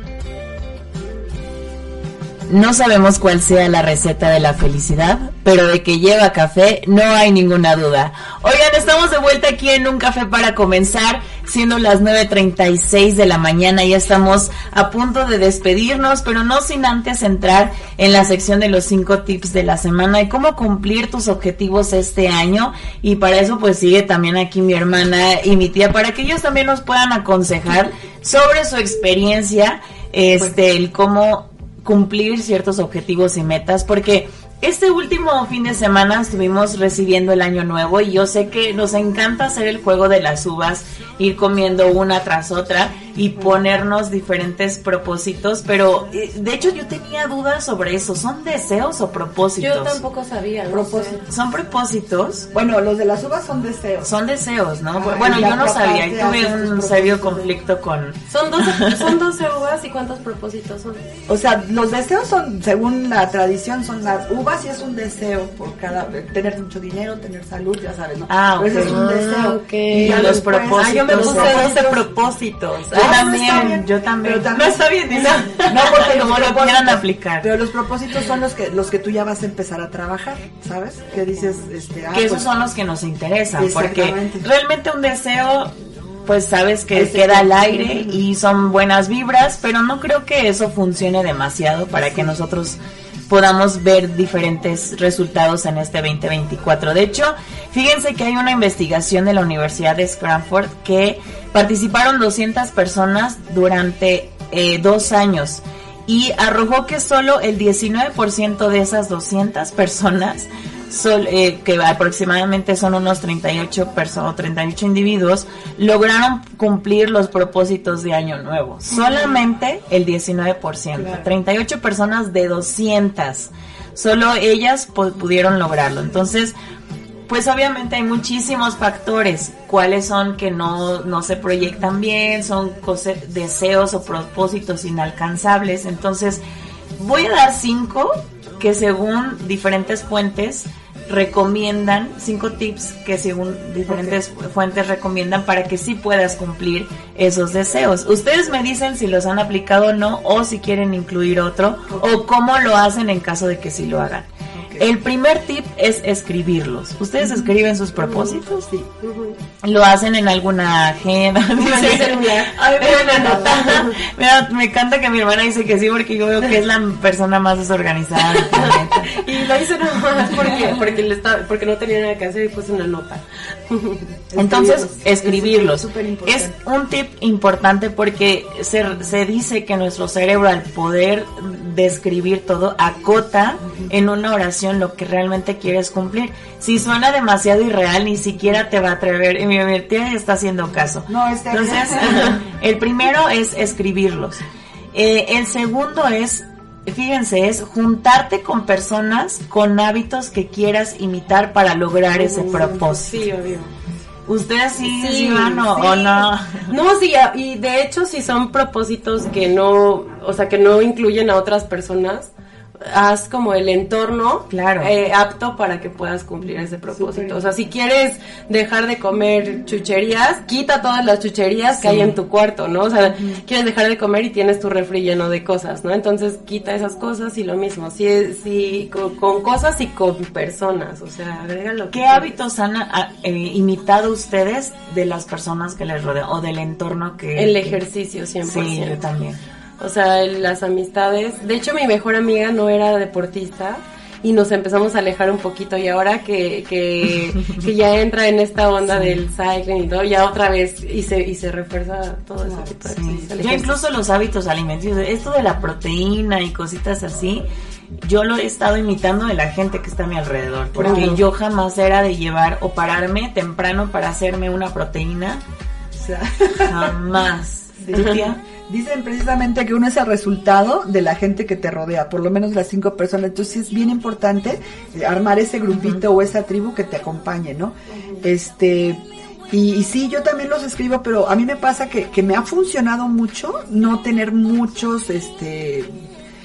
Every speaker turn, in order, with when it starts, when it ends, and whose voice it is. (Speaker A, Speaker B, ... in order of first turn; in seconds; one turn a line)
Speaker A: 2.5-50.0
Speaker B: 49.6-51.2
Speaker C: 50.7-51.3
Speaker A: 51.3-52.5
Speaker C: 52.5-54.2
Speaker A: 54.0-59.1
Speaker C: 54.9-57.5
Speaker B: 58.3-61.0
Speaker C: 61.3-72.0
Speaker A: 68.3-69.0
Speaker B: 68.7-73.5
Speaker A: 70.0-71.8
Speaker C: 72.9-75.0
Speaker A: 72.9-77.5
Speaker B: 75.1-75.6
Speaker C: 75.6-82.5
Speaker A: 82.1-126.5
Speaker C: 83.6-84.5
Speaker C: 86.9-88.2
Speaker C: 92.0-92.3
Speaker C: 121.0-121.3
Speaker A: 127.3-136.4
Speaker A: 137.0-158.7
Speaker C: 143.9-144.2
Speaker C: 154.5-154.9
Speaker B: 158.0-158.4
Speaker C: 158.5-158.9
Speaker B: 159.0-159.4
Speaker A: 159.6-169.2
Speaker B: 161.6-164.0
Speaker B: 168.4-174.1
Speaker C: 174.3-176.5
Speaker A: 174.3-203.3
Speaker C: 191.1-192.4
Speaker B: 202.2-203.7
Speaker A: 204.3-206.7
Speaker B: 204.8-232.3
Speaker A: 214.5-214.9
Speaker C: 216.9-217.5
Speaker A: 221.8-222.2
Speaker A: 231.9-237.8
Speaker B: 237.3-239.0
Speaker A: 238.4-239.4
Speaker B: 239.8-253.8
Speaker C: 252.4-253.3
Speaker A: 253.1-257.5
Speaker A: 258.0-265.4
Speaker C: 260.8-261.2
Speaker B: 260.8-261.2
Speaker C: 266.0-266.9
Speaker A: 266.6-268.4
Speaker C: 267.8-285.9
Speaker B: 267.9-268.2
Speaker A: 275.7-276.0